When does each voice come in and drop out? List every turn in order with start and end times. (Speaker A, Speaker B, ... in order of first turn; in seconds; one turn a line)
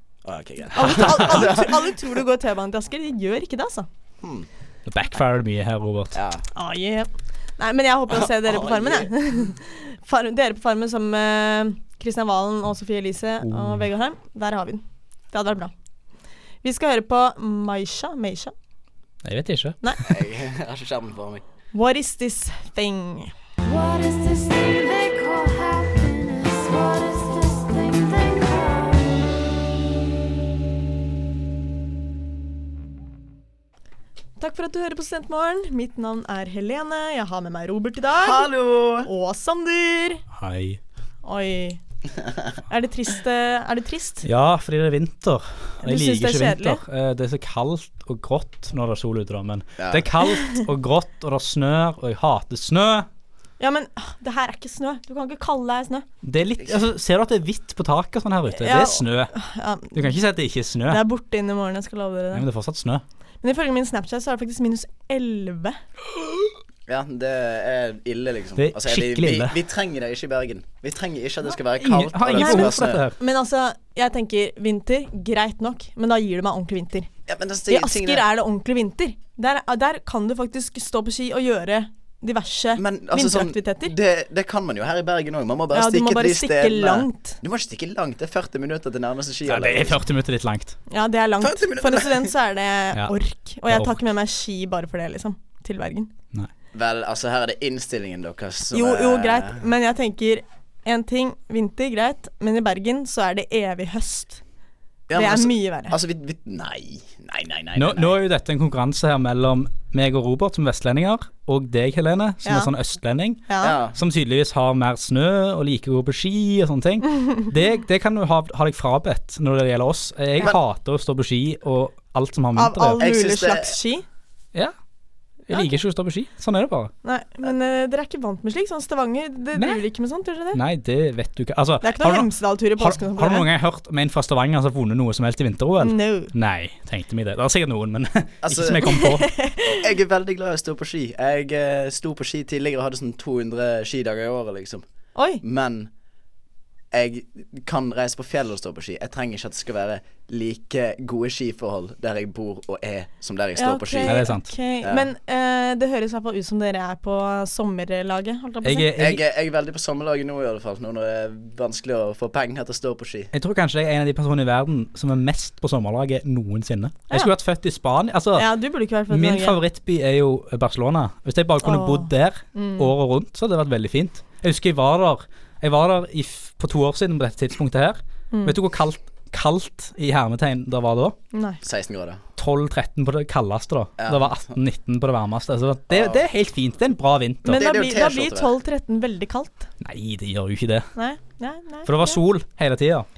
Speaker A: 0.2-2.0
Speaker B: 0.7-3.9
Speaker C: 0.8-1.4
Speaker A: 4.2-4.5
Speaker C: 4.9-6.2
Speaker A: 6.1-6.4
Speaker B: 6.6-15.7
Speaker A: 8.1-9.6
Speaker C: 13.4-13.8
Speaker B: 16.6-18.5
Speaker C: 19.2-19.8
Speaker A: 20.0-21.4
Speaker B: 21.7-23.3
Speaker D: 23.7-28.9
Speaker B: 34.4-38.5
Speaker A: 38.1-39.1
Speaker B: 39.0-40.2
Speaker C: 40.3-40.8
Speaker B: 41.2-41.8
Speaker B: 42.7-44.2
Speaker C: 44.2-53.1
Speaker B: 45.8-46.8
Speaker A: 49.8-50.1
Speaker B: 53.6-56.0
Speaker C: 56.2-59.3
Speaker B: 58.5-60.2
Speaker C: 59.9-61.0
Speaker B: 60.9-62.5
Speaker C: 62.3-63.0
Speaker B: 63.4-65.8
Speaker A: 66.9-73.0
Speaker C: 68.6-69.6
Speaker C: 71.8-73.2
Speaker B: 72.4-77.1
Speaker A: 77.3-78.2
Speaker B: 77.7-84.0
Speaker A: 82.8-90.0
Speaker B: 85.7-87.4
Speaker C: 89.5-90.8
Speaker B: 90.9-96.1
Speaker A: 91.4-92.3
Speaker C: 93.7-94.0
Speaker A: 96.7-99.6
Speaker B: 98.7-104.4
Speaker A: 105.1-108.2
Speaker B: 105.1-106.0
Speaker C: 107.8-123.0
Speaker B: 112.5-112.7
Speaker B: 113.5-113.8
Speaker A: 113.6-114.0
Speaker B: 122.6-124.0
Speaker A: 123.0-123.8
Speaker C: 125.5-126.9
Speaker B: 127.0-130.6
Speaker C: 130.5-139.3
Speaker B: 131.8-133.5
Speaker B: 135.8-136.3
Speaker A: 138.4-138.9
Speaker B: 138.9-139.8
Speaker A: 139.7-144.8
Speaker B: 145.2-145.4
Speaker A: 145.4-145.9
Speaker A: 146.9-154.2
Speaker B: 153.6-158.9
Speaker C: 154.1-154.5
Speaker A: 154.8-155.1
Speaker C: 158.6-159.2
Speaker A: 159.0-163.3
Speaker C: 163.3-168.5
Speaker B: 168.4-169.6
Speaker C: 169.1-181.2
Speaker B: 171.6-172.9
Speaker B: 181.3-181.6
Speaker A: 181.6-182.2
Speaker C: 182.4-187.6
Speaker A: 184.0-184.5
Speaker A: 185.9-186.2
Speaker B: 187.4-189.7
Speaker A: 187.5-188.5
Speaker C: 189.8-190.9
Speaker B: 191.0-192.2
Speaker C: 191.9-193.1